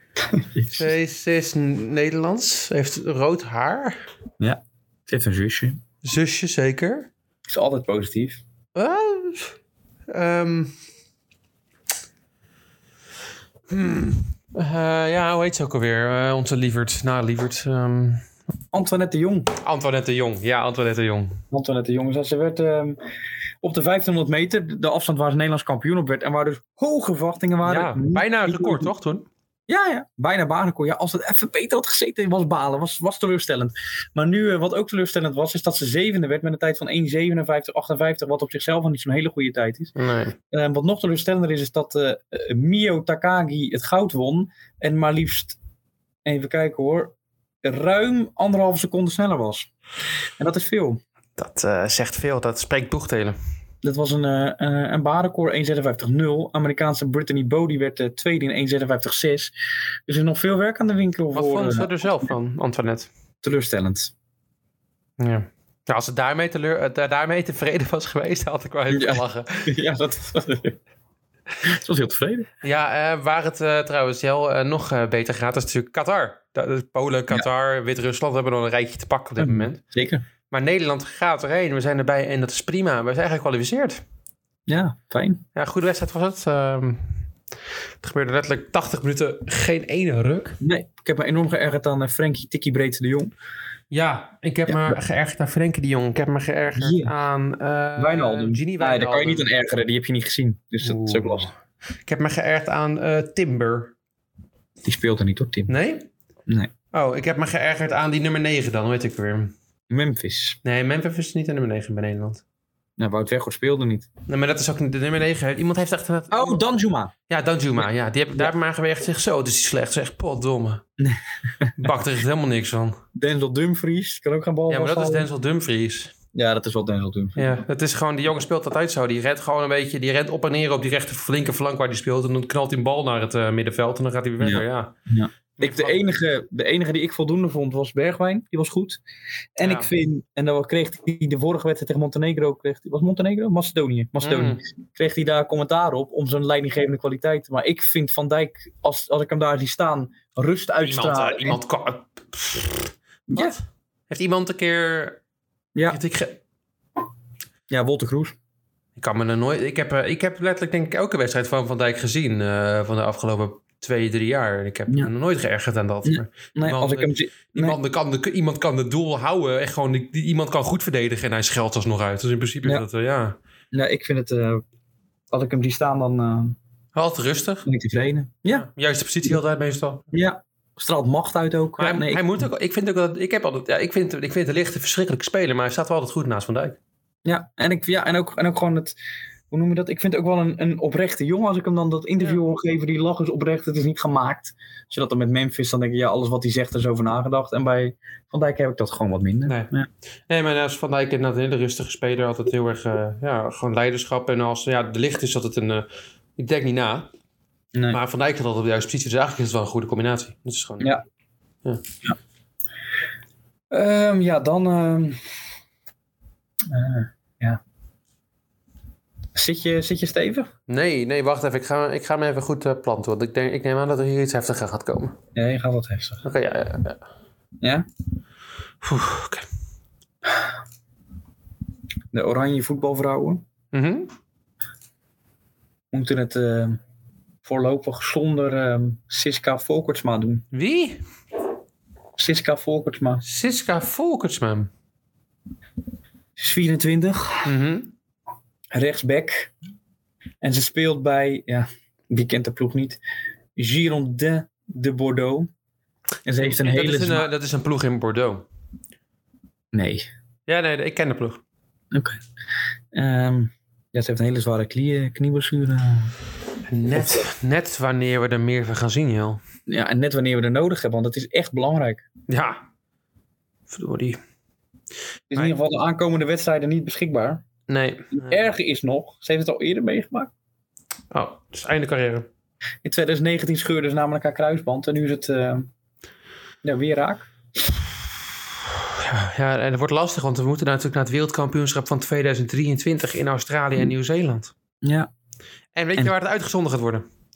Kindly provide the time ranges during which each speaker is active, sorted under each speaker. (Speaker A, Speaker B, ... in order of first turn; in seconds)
Speaker A: 0.3-0.9, 4.4-5.8, 7.5-8.4, 18.7-19.5, 21.5-23.0, 23.6-28.9, 29.7-39.9, 40.5-45.6, 46.2-49.7, 50.4-51.0, 53.8-59.5, 60.1-61.9, 63.4-64.1, 68.9-70.8, 71.6-72.5, 79.4-80.2, 84.7-85.4, 90.6-93.3, 94.7-95.0, 96.8-97.1, 98.0-101.5, 104.8-105.7, 109.9-110.6, 113.0-114.1, 116.3-117.1, 117.8-118.5, 121.0-121.9, 123.2-125.3, 126.3-127.6, 134.4-139.0, 139.6-151.6, 153.3-153.6, 157.7-158.4, 166.1-167.8, 173.7-174.6, 175.3-176.6, 177.7-178.7, 180.1-182.3, 187.2-189.0, 189.5-199.9, 207.7-208.0, 213.7-215.2, 216.7-217.6, 219.3-220.5, 225.3-226.2, 227.6-227.9, 232.1-233.4, 235.9-236.8, 237.4-240.4, 242.2-243.2, 246.4-247.5, 248.7-249.5, 250.4-253.0, 253.6-255.5, 256.2-257.3, 259.7-260.1, 261.9-262.2, 262.9-266.1, 266.9-267.3, 269.7-272.0, 275.3-277.4, 278.1-280.3, 282.8-285.7, 286.6-287.3, 294.8-295.1
Speaker B: 0.7-4.0, 6.0-7.1, 8.8-9.6, 10.1-10.7, 13.7-18.2, 19.6-21.4, 27.6-29.3, 40.0-40.4, 51.4-53.4, 61.3-63.1, 65.2-69.7, 72.6-79.8, 80.5-84.0, 85.5-87.2, 88.0-90.6, 93.9-99.5, 100.8-101.5, 102.0-103.9, 105.7-106.1, 106.9-109.5, 110.6-112.4, 114.3-116.6, 117.3-120.8, 121.8-123.0, 124.7-126.1, 127.4-134.9, 135.6-136.0, 139.6-139.9, 144.2-144.6, 150.8-155.2, 155.9-156.4, 159.0-173.4, 176.9-177.7, 178.5-180.1, 181.8-186.8, 200.3-207.1, 207.9-211.0, 220.7-225.2, 226.2-227.0, 228.8-229.5, 233.7-234.1, 240.5-241.0, 243.2-244.7, 247.4-247.9, 256.4-258.4, 260.5-261.4, 266.7-269.4, 272.3-272.6, 273.7-274.2, 277.7-278.3, 281.1-282.3, 288.9-294.5, 295.8-297.1